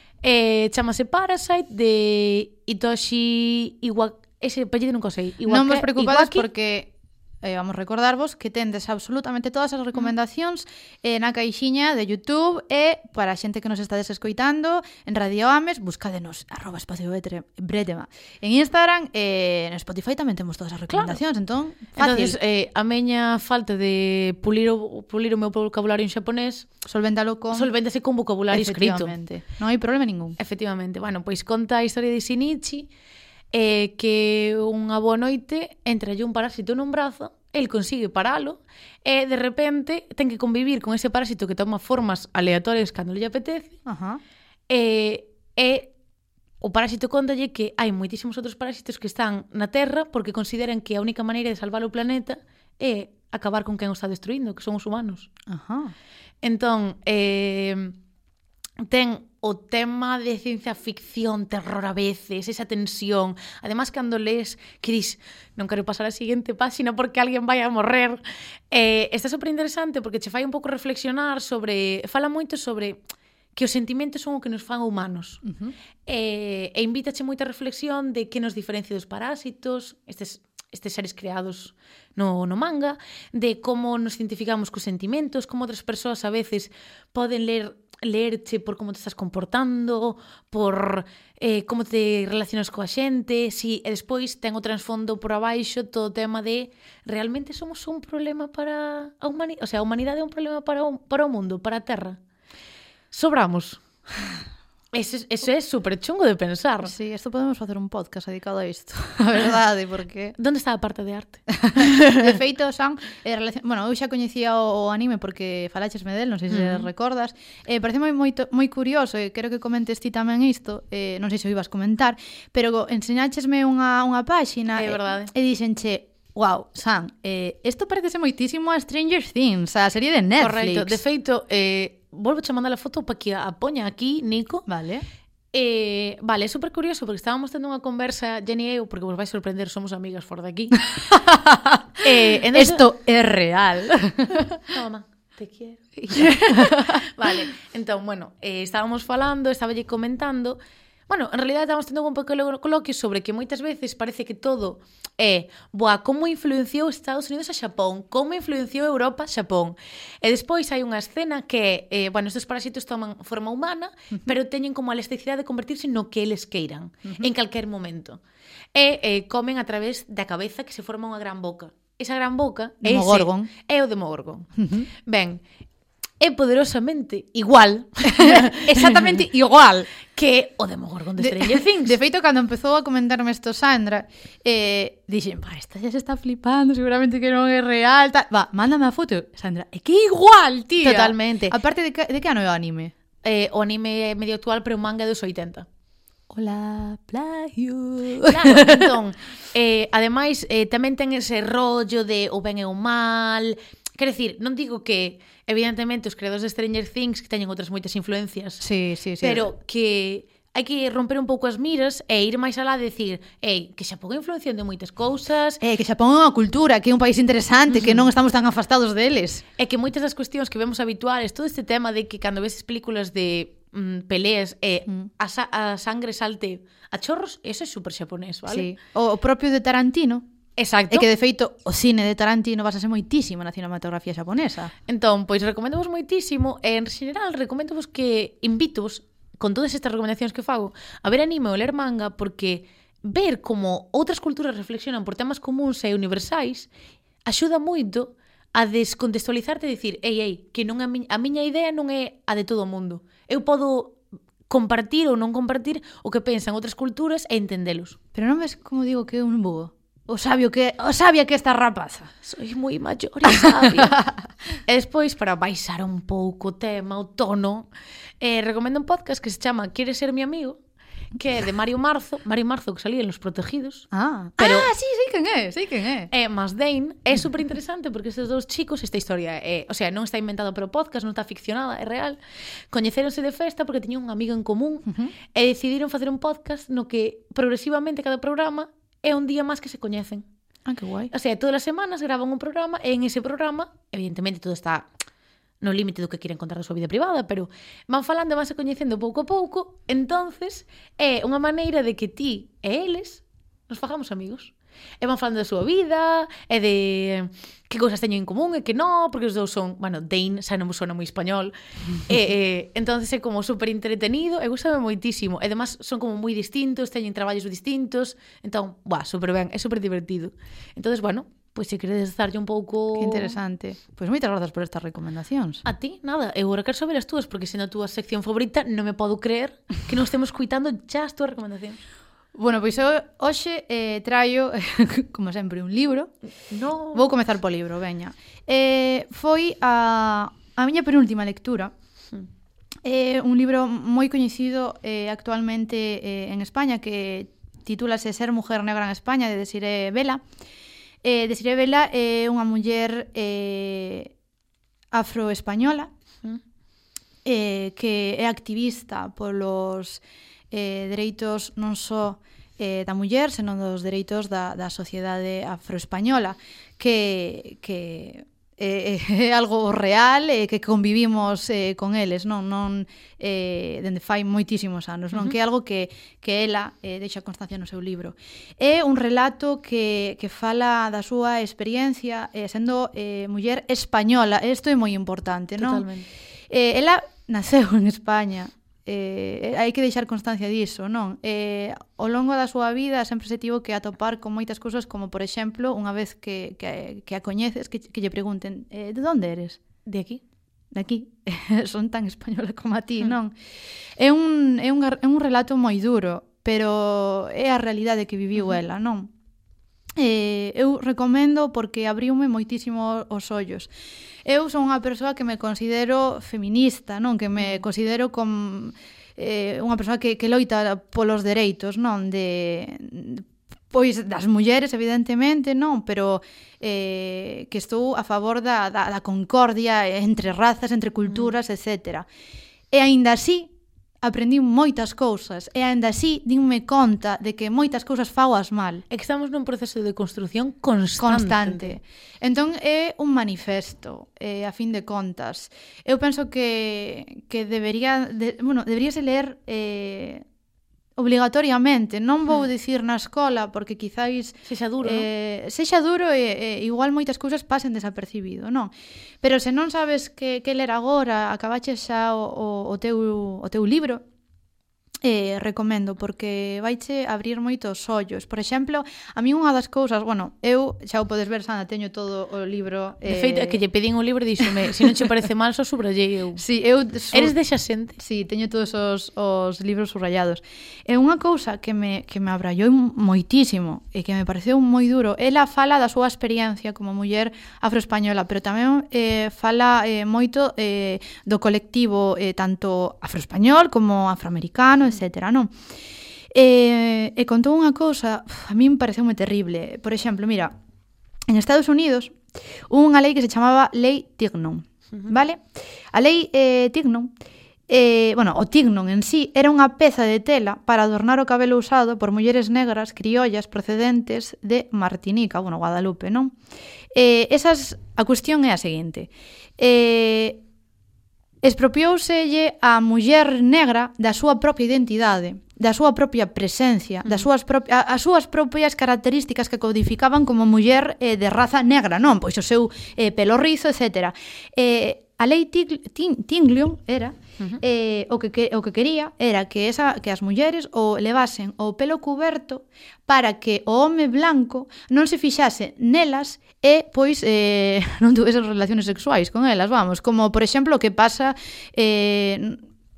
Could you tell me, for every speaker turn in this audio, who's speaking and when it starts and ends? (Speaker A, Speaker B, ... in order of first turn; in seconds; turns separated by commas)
Speaker A: 0.2-6.5, Speaker B: 5.5-22.4, Speaker A: 20.9-21.2, Speaker A: 21.9-26.7, Speaker B: 26.8-27.7, Speaker A: 27.5-29.1, Speaker B: 28.5-30.4, Speaker A: 30.4-32.9, Speaker A: 33.5-43.8, Speaker B: 43.9-44.2, Speaker A: 44.7-45.9, Speaker A: 46.6-55.3, Speaker B: 55.5-55.9, Speaker A: 56.4-58.0, Speaker A: 58.8-73.0, Speaker A: 73.5-75.4, Speaker B: 75.5-75.7, Speaker A: 76.1-102.2, Speaker A: 103.1-103.8, Speaker A: 104.9-106.9, Speaker B: 106.8-110.3, Speaker A: 110.4-112.4, Speaker B: 111.6-131.0, Speaker A: 116.5-116.9, Speaker A: 124.8-125.3, Speaker A: 130.4-134.7, Speaker B: 134.7-135.1, Speaker A: 135.5-140.8, Speaker B: 140.9-142.0, Speaker A: 142.0-142.8, Speaker B: 142.5-144.5, Speaker A: 144.7-168.2, Speaker B: 146.0-147.4, Speaker A: 168.8-174.5, Speaker B: 172.8-173.5, Speaker B: 174.6-174.9, Speaker A: 175.1-175.4, Speaker A: 176.2-179.1, Speaker B: 178.1-179.9, Speaker A: 180.1-182.0, Speaker B: 181.2-192.9, Speaker A: 190.8-191.6, Speaker A: 193.2-195.7, Speaker B: 196.3-198.9, Speaker A: 198.2-208.6, Speaker B: 208.6-209.5, Speaker A: 209.2-215.6, Speaker B: 215.6-219.4, Speaker A: 217.7-218.1, Speaker A: 219.6-228.7, Speaker B: 228.5-230.2, Speaker A: 230.6-231.1, Speaker B: 230.9-234.7, Speaker A: 234.9-246.7, Speaker A: 247.2-258.0, Speaker B: 258.1-262.1, Speaker A: 262.2-264.0, Speaker B: 263.2-264.1, Speaker A: 264.6-267.7, Speaker A: 268.2-270.6, Speaker A: 271.1-273.9, Speaker B: 273.9-276.1, Speaker A: 274.4-274.7, Speaker A: 276.1-282.2, Speaker A: 282.7-290.3, Speaker B: 284.9-285.1, Speaker B: 290.6-291.1, Speaker A: 291.1-294.9, Speaker A: 295.6-323.4, Speaker B: 322.9-325.6, Speaker A: 325.6-331.8, Speaker B: 332.4-336.1, Speaker A: 336.5-337.1, Speaker B: 336.9-341.7, Speaker B: 342.8-350.2, Speaker B: 351.0-354.1, Speaker B: 354.9-355.9, Speaker B: 357.2-385.9, Speaker A: 385.6-386.1, Speaker B: 386.5-399.6, Speaker A: 399.9-400.2, Speaker B: 400.7-403.4, Speaker B: 404.0-409.1, Speaker B: 410.0-413.7, Speaker B: 414.2-432.1, Speaker B: 432.7-438.8, Speaker A: 438.9-441.8, Speaker B: 441.0-450.2, Speaker B: 451.0-464.0, Speaker A: 454.5-455.1, Speaker B: 465.0-473.6, Speaker A: 473.1-476.4, Speaker B: 474.4-474.6, Speaker B: 476.4-477.4, Speaker A: 477.1-478.0, Speaker B: 478.0-495.6, Speaker B: 496.3-500.5, Speaker B: 501.3-507.1, Speaker B: 507.7-516.4, Speaker B: 516.9-520.4, Speaker B: 521.4-552.6